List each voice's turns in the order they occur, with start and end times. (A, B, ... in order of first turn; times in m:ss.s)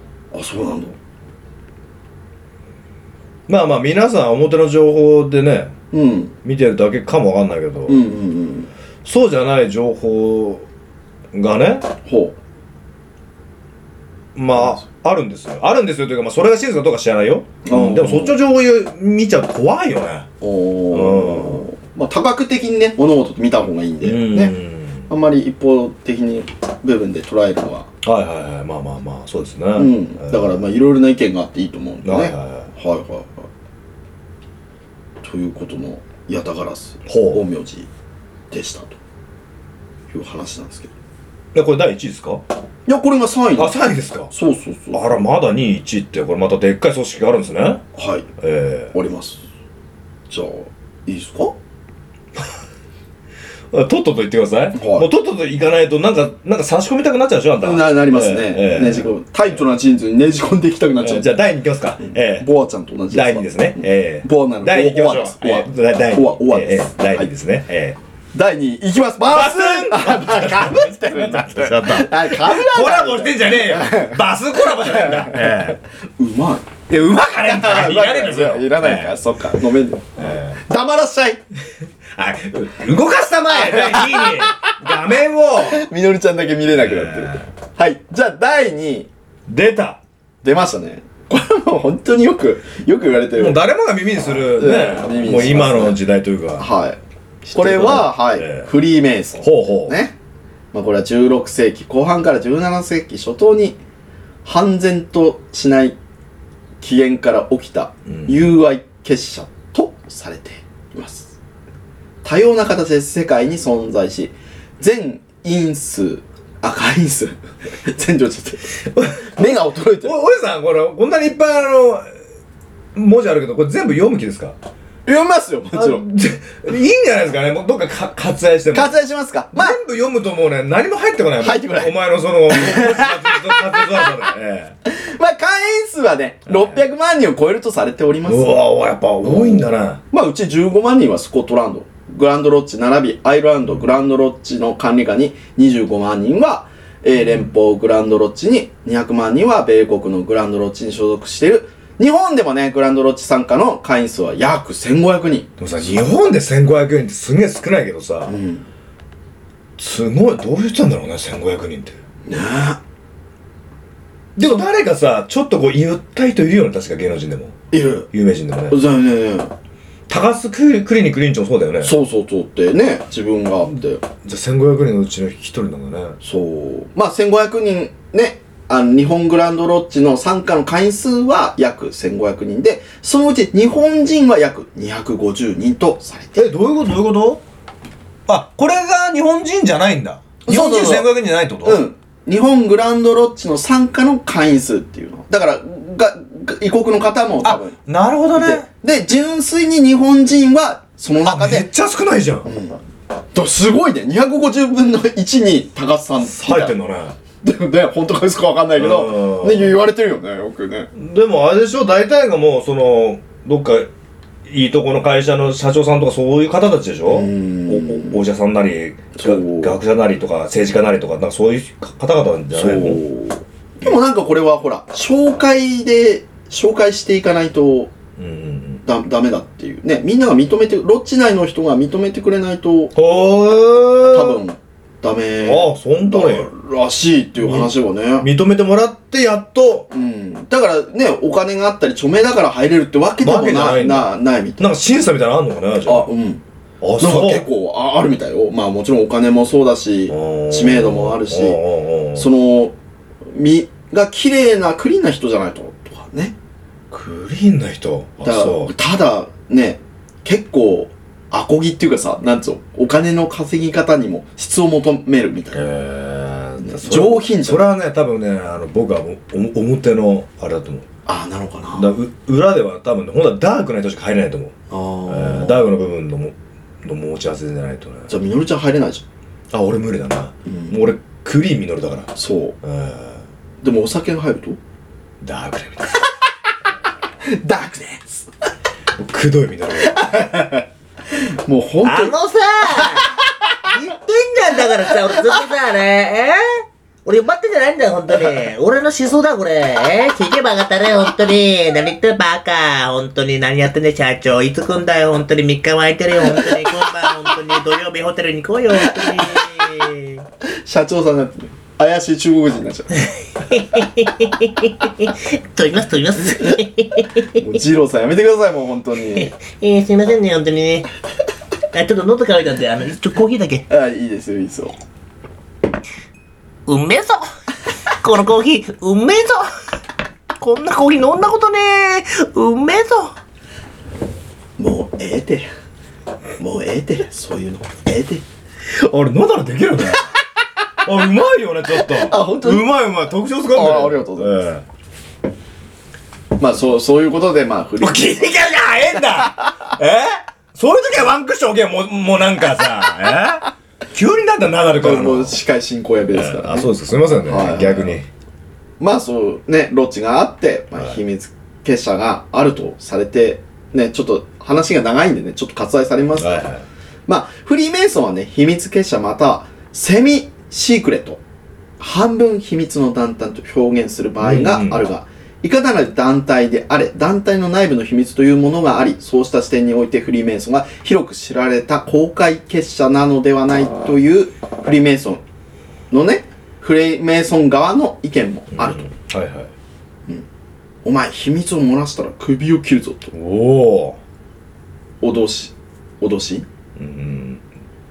0:00.3-0:01.0 A
0:03.5-0:05.7 B
0:05.9-0:06.3 A
0:06.4-0:08.0 B
0:07.9-0:08.7 A
0:09.0-0:10.6 B
0:11.3-0:11.9 B
0:12.0-0:12.4 A
0:14.3-0:20.3 B
0:14.5-0:14.8 A
0:17.6-0:18.4 A
0:20.4-0:24.6 A
0:20.9-0:21.6 B
0:24.0-0:25.1 B
0:25.1-0:27.9 A
0:28.0-0:30.6 B
0:29.8-0:33.5 A
0:32.0-0:32.7 B
0:35.2-0:37.9 A
0:37.0-0:37.4 B
0:38.5-0:39.0 A
0:40.1-0:40.9 A
0:41.5-0:42.4 B
0:42.8-0:43.8 A
0:43.6-0:44.3 B
0:44.3-0:45.1 A
0:44.9-0:47.8 B
0:47.9-0:48.3 A
0:48.4-0:48.9 B
0:48.9-0:49.4 A
0:50.3-0:51.6 A
0:53.7-0:59.1 B
0:54.7-0:55.1 A
0:57.6-1:01.3 A
1:01.0-1:02.5 B
1:02.0-1:07.3 A
1:03.1-1:08.0 B
1:08.3-1:14.2 A
1:09.3-1:15.8 B
1:14.7-1:21.4 A
1:16.9-1:19.3 B
1:20.2-1:20.6 B
1:22.1-1:25.9 B
1:23.5-1:24.7 A
1:25.6-1:29.1 A
1:26.8-1:27.4 B
1:29.5-1:30.0 B
1:30.4-1:33.6 A
1:33.3-1:36.7 B
1:34.5-1:36.0 A
1:36.6-1:40.1 A
1:37.5-1:38.7 B
1:39.4-1:40.0 B
1:40.7-1:43.8 A
1:44.4-1:46.0 A
1:46.8-1:51.3 A
1:48.1-1:48.5 B
1:52.2-2:00.1 A
1:58.9-2:02.0 B
2:02.9-2:04.6 B
2:05.0-2:06.0 A
2:05.7-2:08.9 B
2:08.7-2:09.8 A
2:09.5-2:14.7 B
2:11.4-2:11.9 A
2:12.5-2:13.6 A
2:14.8-2:18.6 A
2:16.5-2:16.8 B
2:18.2-2:20.0 B
2:19.2-2:35.5 A
2:27.2-2:27.5 B
2:35.6-2:38.4 B
2:38.3-2:38.6 A
2:39.8-2:42.0 B
2:42.2-2:42.8 A
2:44.4-2:47.6 B
2:47.7-2:48.1 A
2:48.1-2:48.8 B
2:48.7-2:49.5 A
2:50.1-2:51.9 B
2:51.8-2:54.0 A
2:54.2-2:56.2 B
2:56.2-3:06.5 A
3:06.4-3:07.4 B
3:08.3-3:11.8 B
3:10.4-3:11.1 A
3:11.6-3:17.8 A
3:17.4-3:18.7 B
3:18.3-3:21.7 A
3:21.2-3:22.5 B
3:22.4-3:22.8 A
3:23.3-3:26.7 A
3:26.2-3:27.2 B
3:27.4-3:30.9 A
3:28.8-3:29.8 B
3:30.9-3:33.9 B
3:34.4-3:43.0 B
3:37.1-3:38.2 A
3:39.1-3:39.8 A
3:42.5-3:47.9 A
3:48.2-3:48.8 B
3:48.8-3:53.0 A
3:52.9-3:54.4 B
3:54.1-3:58.3 A
3:55.4-3:56.5 B
3:57.4-3:59.9 B
3:59.9-4:04.7 A
4:03.2-4:06.1 B
4:05.8-4:06.4 A
4:06.8-4:07.5 B
4:07.0-4:11.6 A
4:10.1-4:12.3 B
4:12.1-4:12.8 A
4:13.3-4:16.3 A
4:16.9-4:18.7 B
4:18.2-4:25.7 A
4:25.5-4:30.8 B
4:26.6-4:27.6 A
4:31.0-4:31.9 A
4:31.7-4:34.6 B
4:34.7-4:35.6 A
4:35.1-4:38.1 B
4:38.1-4:39.0 A
4:39.5-4:43.2 B
4:40.4-4:40.8 A
4:42.1-4:42.6 A
4:43.6-4:44.6 A
4:45.2-4:46.0 B
4:47.2-4:48.3 A
4:49.0-4:50.4 B
4:49.9-4:52.2 A
4:51.8-4:53.1 C
4:53.6-5:10.2 C
5:10.6-5:13.0 A
5:13.4-5:17.3 C
5:17.3-5:19.3 A
5:19.1-5:20.9 C
5:21.7-5:23.6 C
5:23.7-5:24.8 A
5:26.7-5:27.3 C
5:28.0-5:29.5 C
5:30.4-5:33.1 C
5:34.6-5:35.5 A
5:36.4-5:38.2 A
5:38.7-5:40.1 B
5:40.8-5:44.6 B
5:41.7-5:42.6 A
5:43.5-5:44.3 A
5:46.4-5:48.3 A
5:47.8-5:55.4 B
5:54.8-5:56.7 A
5:56.1-5:58.1 B
5:57.2-5:58.0 A
5:58.8-6:06.5 A
6:06.2-6:06.6 B
6:07.1-6:11.2 A
6:11.8-6:25.2 A
6:14.2-6:14.8 B
6:25.9-6:28.9 A
6:28.5-6:29.5 B
6:30.8-6:33.1 A
6:33.1-6:34.0 B
6:35.0-6:36.5 A
6:36.8-6:37.4 B